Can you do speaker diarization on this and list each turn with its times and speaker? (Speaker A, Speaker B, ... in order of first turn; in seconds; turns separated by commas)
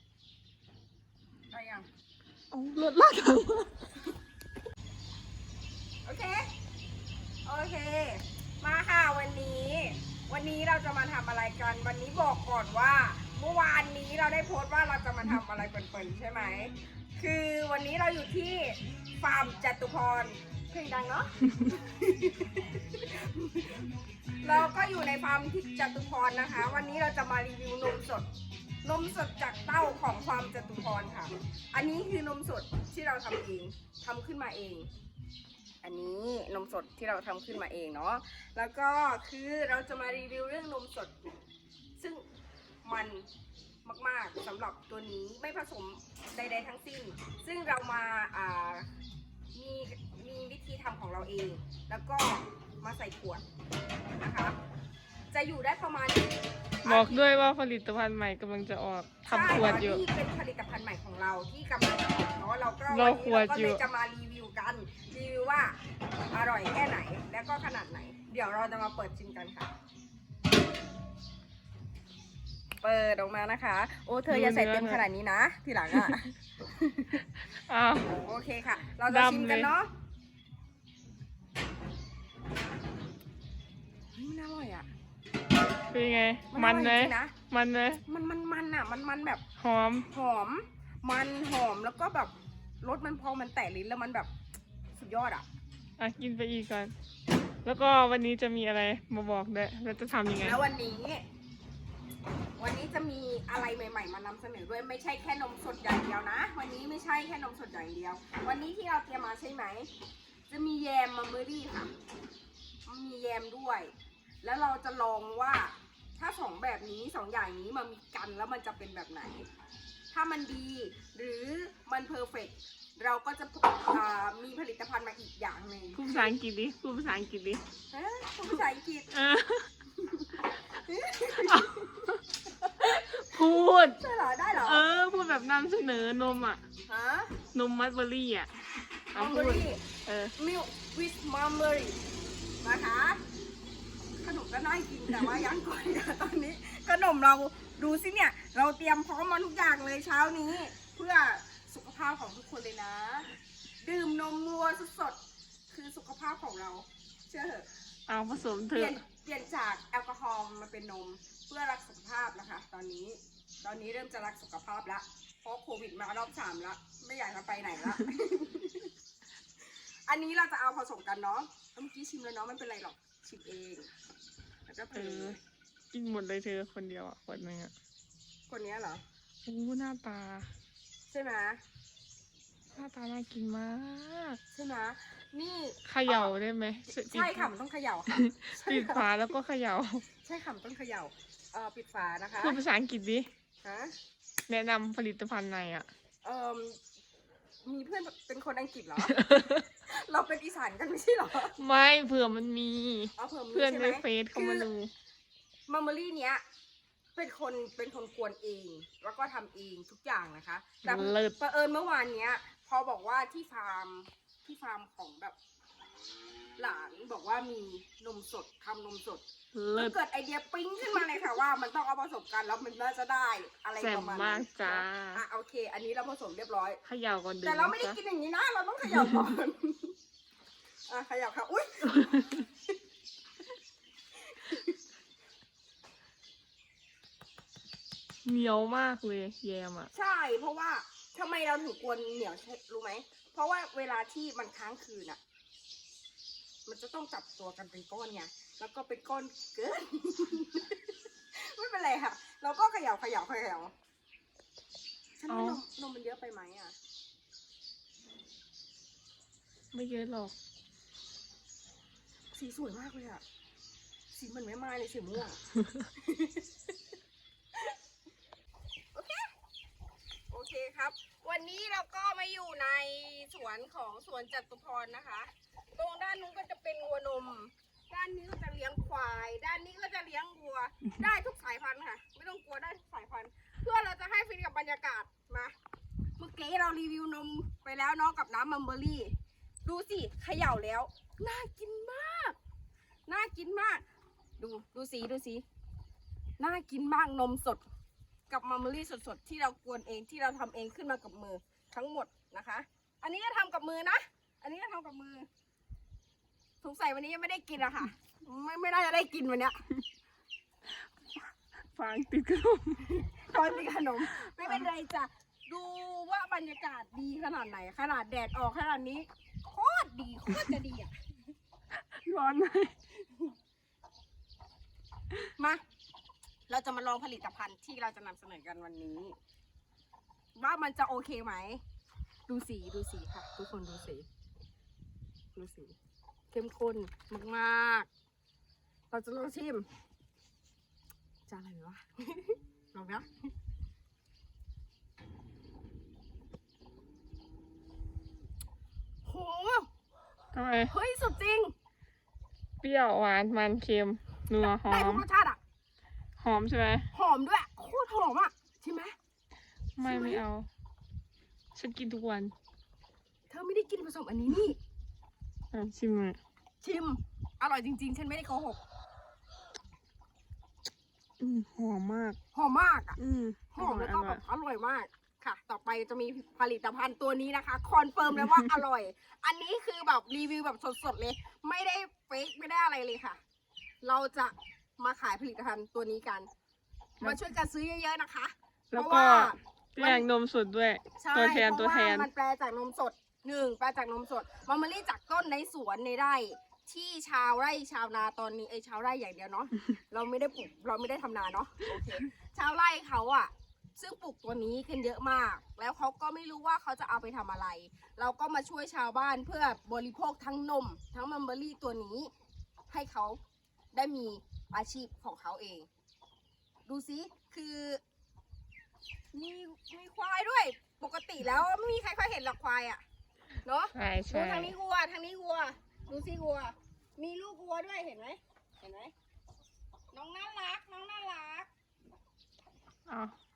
Speaker A: 1.5-1.9, Speaker B: 2.5-3.7, Speaker A: 6.0-6.5, Speaker A: 7.4-23.9, Speaker A: 24.4-28.3, Speaker A: 28.8-34.9, Speaker A: 35.8-41.1, Speaker A: 42.0-42.2, Speaker A: 42.8-43.3, Speaker A: 43.8-48.9, Speaker A: 49.5-53.4, Speaker A: 54.2-54.5, Speaker A: 55.3-57.3, Speaker B: 56.8-60.0, Speaker A: 59.3-65.8, Speaker B: 62.9-63.8, Speaker A: 66.3-69.7, Speaker A: 72.8-77.2, Speaker B: 74.3-75.0, Speaker B: 75.9-76.2, Speaker B: 77.5-78.2, Speaker A: 78.1-79.9, Speaker B: 79.0-79.7, Speaker A: 84.1-84.9, Speaker B: 85.9-88.0, Speaker A: 86.5-87.3, Speaker A: 88.0-89.4, Speaker B: 89.6-90.1, Speaker A: 90.0-94.3, Speaker A: 94.9-95.5, Speaker B: 96.0-96.9, Speaker B: 97.6-100.6, Speaker A: 100.4-101.2, Speaker A: 102.6-109.9, Speaker A: 110.5-111.9, Speaker A: 112.8-119.5, Speaker A: 120.1-126.3, Speaker B: 125.9-127.6, Speaker A: 127.9-129.1, Speaker B: 129.1-129.7, Speaker A: 130.0-133.4, Speaker B: 131.4-132.2, Speaker B: 132.8-134.0, Speaker A: 134.0-134.8, Speaker B: 134.6-136.6, Speaker A: 136.9-137.3, Speaker B: 137.5-138.5, Speaker B: 139.1-140.3, Speaker A: 139.1-139.8, Speaker A: 140.4-142.0, Speaker A: 142.6-143.2, Speaker A: 144.2-153.3, Speaker A: 153.8-155.2, Speaker A: 155.7-157.7, Speaker B: 158.1-159.0, Speaker A: 158.7-168.9, Speaker A: 170.1-173.9, Speaker A: 174.7-175.4, Speaker B: 174.9-175.4, Speaker B: 175.9-177.7, Speaker A: 178.5-179.0, Speaker B: 179.4-180.5, Speaker A: 181.1-181.6, Speaker B: 182.7-184.4, Speaker A: 184.5-186.3, Speaker B: 185.8-187.5, Speaker A: 186.9-189.1, Speaker B: 188.1-190.0, Speaker A: 190.2-192.6, Speaker B: 192.4-193.3, Speaker A: 193.6-193.9, Speaker B: 194.5-195.9, Speaker A: 196.2-196.8, Speaker A: 197.6-201.6, Speaker B: 199.1-199.6, Speaker B: 201.5-204.9, Speaker A: 203.2-204.7, Speaker A: 205.7-206.4, Speaker A: 207.2-215.3, Speaker B: 210.8-211.4, Speaker A: 216.6-219.2, Speaker B: 219.5-219.9, Speaker A: 219.8-226.8, Speaker B: 223.8-225.2, Speaker B: 226.8-228.0, Speaker A: 227.4-229.9, Speaker B: 228.9-229.2, Speaker A: 230.9-232.5, Speaker B: 231.9-232.3, Speaker A: 234.3-234.8, Speaker B: 238.2-239.9, Speaker A: 239.9-245.2, Speaker A: 246.7-253.7, Speaker A: 255.2-256.8, Speaker B: 255.3-255.6, Speaker B: 259.7-260.3, Speaker A: 262.3-263.2, Speaker A: 264.1-266.5, Speaker A: 268.9-269.3, Speaker A: 270.3-285.5, Speaker A: 286.2-289.1, Speaker A: 289.6-292.4, Speaker A: 293.1-293.8, Speaker A: 294.4-295.4, Speaker A: 296.4-297.6, Speaker A: 298.3-305.3, Speaker A: 306.6-309.6, Speaker B: 311.7-312.9, Speaker A: 312.8-320.9, Speaker B: 314.2-314.7, Speaker B: 321.8-322.8, Speaker A: 325.4-325.6, Speaker A: 326.5-329.1, Speaker A: 330.4-331.6, Speaker A: 332.3-334.1, Speaker A: 335.4-335.8, Speaker A: 336.3-337.9, Speaker A: 338.9-339.7, Speaker A: 341.3-343.3, Speaker A: 349.0-349.7, Speaker B: 350.3-350.7, Speaker A: 350.7-351.5, Speaker B: 352.6-355.0, Speaker A: 354.4-355.4, Speaker B: 356.2-356.9, Speaker A: 356.9-358.9, Speaker B: 359.8-360.5, Speaker A: 359.8-360.2, Speaker B: 361.5-362.3, Speaker A: 363.3-364.6, Speaker B: 365.5-366.2, Speaker A: 366.6-368.6, Speaker B: 371.2-372.2, Speaker A: 372.3-373.0, Speaker B: 373.0-374.2, Speaker A: 373.5-383.2, Speaker A: 383.8-386.3, Speaker A: 387.0-390.1, Speaker B: 388.7-392.1, Speaker A: 391.0-412.1, Speaker A: 412.7-413.2, Speaker A: 413.7-415.7, Speaker A: 416.7-417.8, Speaker A: 419.1-422.8, Speaker A: 423.4-428.9, Speaker B: 423.7-424.5, Speaker A: 429.9-431.5, Speaker B: 432.9-433.1